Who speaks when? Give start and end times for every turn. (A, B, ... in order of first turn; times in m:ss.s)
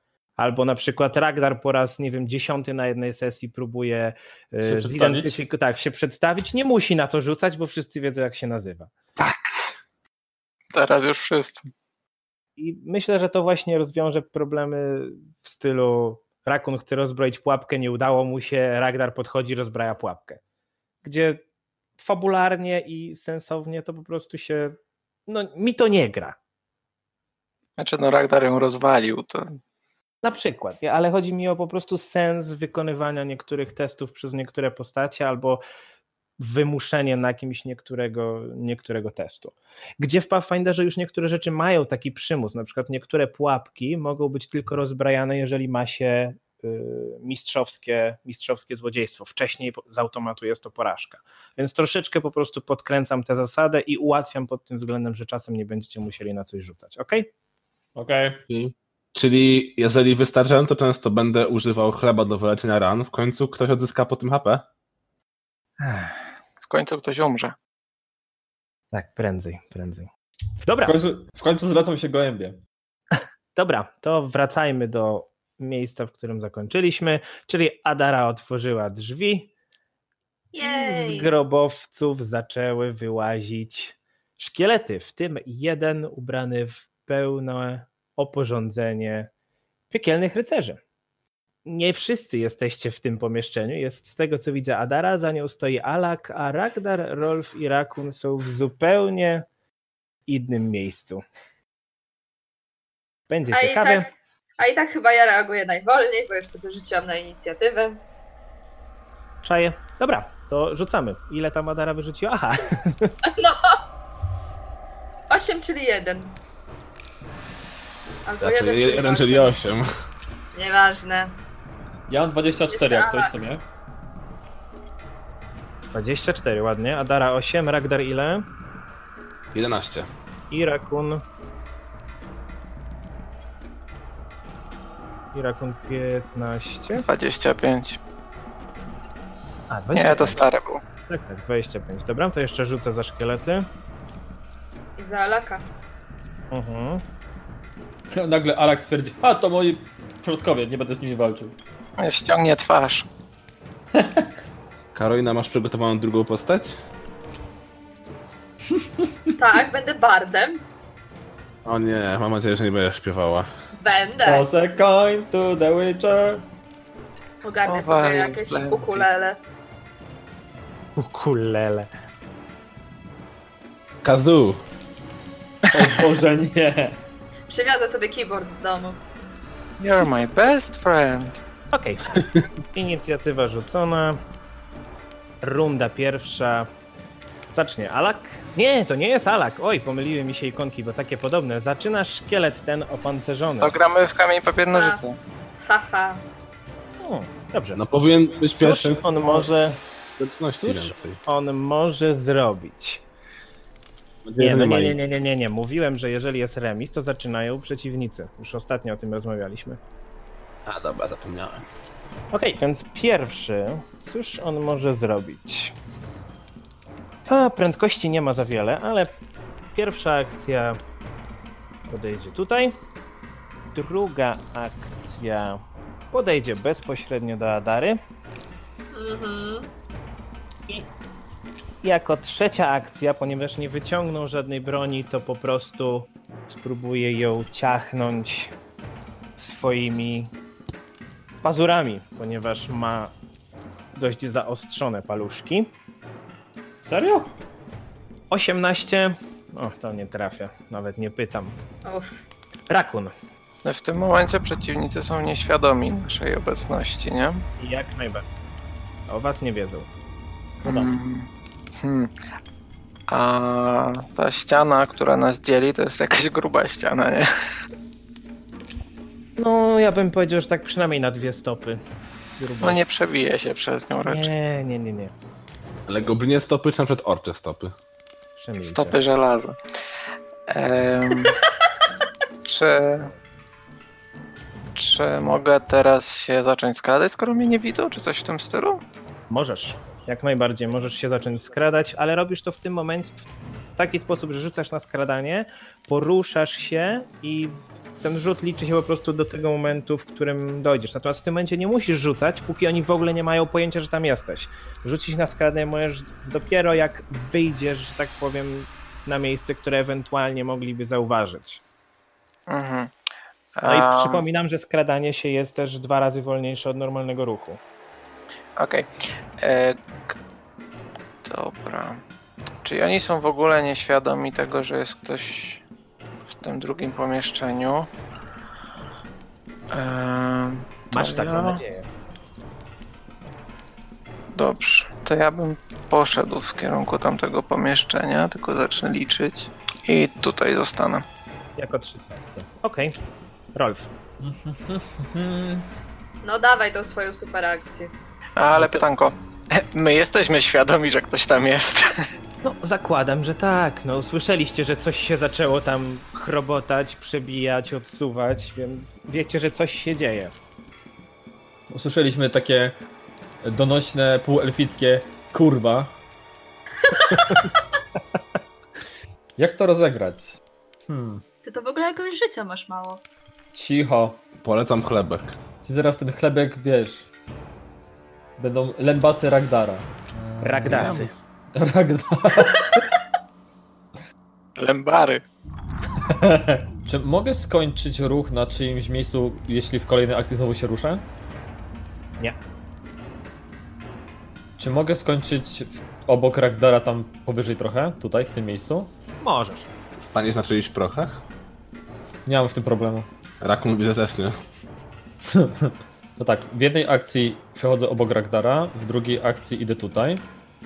0:00.4-0:08.9 A
0:04.6-0:05.4 B
0:09.2-0:09.5 C
0:10.7-0:11.7 D
0:12.6-0:20.4 A
0:21.0-0:21.4 A
0:22.0-0:26.4 A
0:27.8-0:29.6 D
0:30.2-0:35.6 A
0:36.4-0:57.3 A
0:58.0-0:58.4 B
0:58.5-1:04.7 C
1:05.8-1:06.2 A
1:06.6-1:07.6 D
1:08.9-1:10.1 A
1:10.6-1:11.0 A
1:10.8-1:12.6 B
1:13.2-1:19.5 A
1:20.5-1:21.3 E
1:20.6-1:29.3 A
1:29.9-1:30.8 A
1:31.7-1:39.5 A
1:40.3-1:41.2 A
1:43.3-1:44.1 A
1:43.5-1:48.0 E
1:49.4-1:53.1 A
1:53.2-1:53.8 E
1:55.3-1:56.3 E
1:58.2-1:59.6 E
1:58.4-1:59.9 C
2:00.5-2:01.4 E
2:02.1-2:03.6 B
2:02.7-2:03.4 E
2:05.9-2:08.4 A
2:09.5-2:10.1 C
2:10.5-2:11.2 A
2:15.3-2:17.1 A
2:17.0-2:18.0 D
2:19.7-2:20.5 A
2:19.9-2:20.8 D
2:21.1-2:23.7 A
2:25.0-2:25.6 E
2:26.5-2:27.0 A
2:28.1-2:31.6 B
2:32.0-2:33.1 D
2:34.0-2:34.3 B
2:34.9-2:36.8 C
2:38.7-2:39.1 B
2:39.4-2:40.6 E
2:41.6-2:43.5 C
2:43.8-2:44.5 E
2:44.2-2:46.4 B
2:47.4-2:49.4 E
2:47.6-2:49.1 D
2:51.0-2:51.9 A
2:54.0-2:54.6 C
2:55.7-2:57.0 B
2:57.5-2:59.0 E
2:59.8-3:01.4 D
3:01.7-3:02.1 A
3:02.2-3:02.4 C
3:02.7-3:04.2 A
3:05.4-3:06.7 A
3:07.5-3:13.8 A
3:13.6-3:15.2 D
3:14.7-3:15.0 E
3:15.6-3:16.2 E
3:17.0-3:17.8 A
3:17.8-3:19.0 C
3:18.5-3:19.8 A
3:20.2-3:21.2 C
3:20.6-3:23.0 A
3:24.2-3:25.0 C
3:24.4-3:29.8 A
3:30.7-3:31.6 C
3:32.3-3:35.8 A
3:37.3-3:39.2 A
3:39.7-3:40.8 A
3:41.9-3:42.8 A
3:43.7-3:48.0 A
3:48.9-3:49.7 E
3:51.8-3:58.5 A
3:59.4-4:00.3 A
4:01.4-4:03.1 A
4:04.0-4:05.7 A
4:06.8-4:07.3 B
4:08.3-4:11.6 A
4:11.8-4:12.2 E
4:12.7-4:13.1 A
4:13.6-4:17.4 D
4:17.6-4:18.3 A
4:19.1-4:19.9 A
4:20.6-4:20.9 B
4:20.6-4:21.3 D
4:21.8-4:22.1 D
4:23.1-4:27.3 D
4:29.4-4:31.8 A
4:32.4-4:32.8 A
4:32.6-4:34.3 D
4:34.0-4:35.1 A
4:35.9-4:37.7 C
4:38.4-4:39.0 A
4:38.6-4:39.6 D
4:40.5-4:41.4 D
4:42.4-4:43.1 D
4:44.8-4:48.8 D
4:49.3-4:53.2 A
4:53.8-5:11.6 A
5:12.5-5:12.9 D
5:13.6-5:14.2 D
5:13.7-5:17.6 A
5:18.6-5:19.8 D
5:21.2-5:22.0 D
5:22.6-5:25.6 D
5:26.3-5:27.9 D
5:29.7-5:31.6 D
5:30.9-5:31.9 A
5:34.4-5:41.0 D
5:41.6-5:42.9 A
5:43.6-5:43.9 A
5:44.2-5:45.7 B
5:46.2-5:47.9 E
5:48.4-5:51.9 D
5:52.4-6:00.3 A
6:01.7-6:02.8 B
6:03.4-6:05.9 B
6:09.4-6:11.2 B
6:11.4-6:13.0 E
6:13.5-6:14.2 B
6:14.4-6:15.4 C
6:15.6-6:17.1 B
6:18.4-6:22.9 B
6:20.4-6:21.1 A
6:20.7-6:21.0 C
6:24.6-6:25.2 D
6:26.0-6:31.0 B
6:34.6-6:38.9 B
6:39.2-6:39.7 A
6:40.0-6:41.2 C
6:42.3-6:43.1 B
6:43.4-6:44.4 C
6:45.3-6:50.2 B